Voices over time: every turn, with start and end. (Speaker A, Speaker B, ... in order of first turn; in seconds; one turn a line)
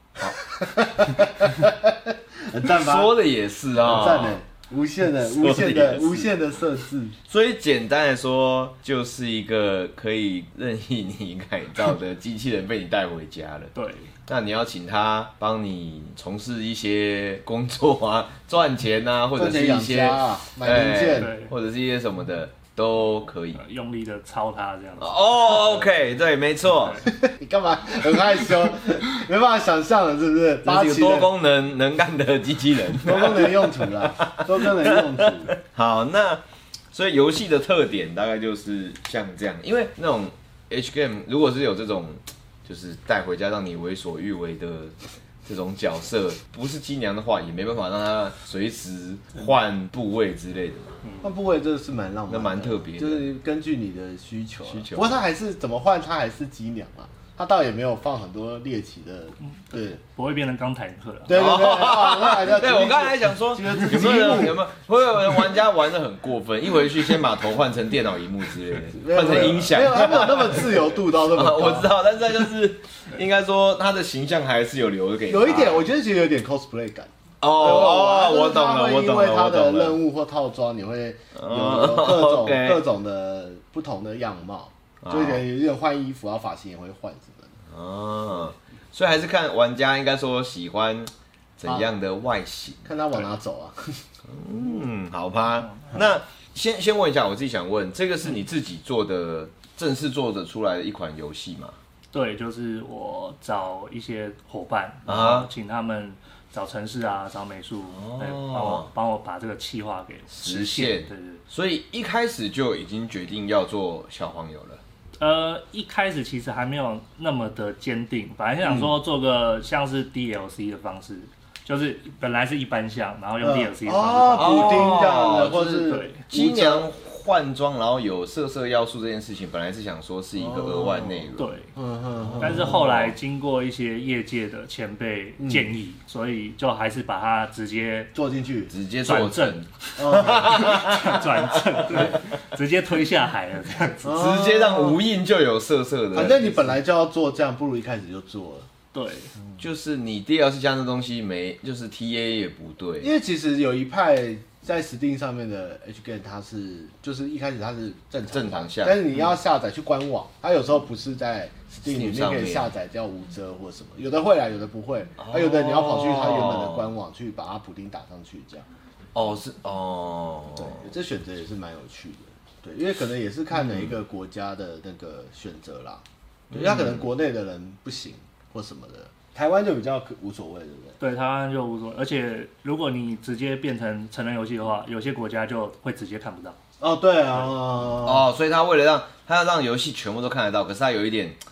Speaker A: 0.4-3.1
Speaker B: 2.6-4.4
Speaker A: 3.8-7.1
Speaker B: 5.2-6.3
Speaker B: 7.3-13.7
Speaker C: 13.7-14.1
Speaker B: 14.3-23.6
Speaker A: 19.4-21.3
Speaker C: 21.1-21.5
Speaker C: 23.5-25.6
Speaker B: 25.0-27.1
Speaker C: 26.8-27.0
Speaker A: 27.0-31.3
Speaker B: 30.6-51.0
Speaker A: 33.0-35.5
Speaker C: 51.0-51.3
Speaker A: 51.2-60.0
Speaker B: 52.3-53.3
Speaker B: 54.7-55.2
Speaker C: 59.4-61.4
Speaker A: 61.2-64.6
Speaker B: 61.3-75.9
Speaker A: 68.9-71.9
Speaker A: 75.3-87.5
Speaker B: 77.4-80.0
Speaker B: 81.3-82.8
Speaker B: 85.0-85.4
Speaker B: 87.7-92.9
Speaker A: 92.8-94.0
Speaker B: 94.3-101.8
Speaker C: 102.1-111.4
Speaker B: 105.0-105.5
Speaker B: 107.9-108.9
Speaker B: 110.3-114.8
Speaker C: 115.2-125.1
Speaker A: 123.4-126.8
Speaker B: 124.4-131.5
Speaker C: 125.8-126.2
Speaker A: 130.3-132.8
Speaker C: 131.4-131.7
Speaker B: 132.3-133.1
Speaker C: 132.4-138.1
Speaker A: 135.4-135.7
Speaker A: 138.1-138.7
Speaker B: 138.7-142.2
Speaker C: 139.0-144.1
Speaker A: 140.0-140.7
Speaker A: 144.0-145.0
Speaker B: 144.1-146.8
Speaker A: 146.1-148.7
Speaker C: 148.9-149.3
Speaker B: 149.6-153.1
Speaker A: 153.0-168.7
Speaker B: 158.3-159.1
Speaker B: 161.8-162.7
Speaker B: 165.2-166.9
Speaker B: 169.1-170.9
Speaker A: 170.5-181.0
Speaker B: 176.5-177.0
Speaker C: 181.0-186.6
Speaker A: 186.8-188.3
Speaker B: 188.0-191.4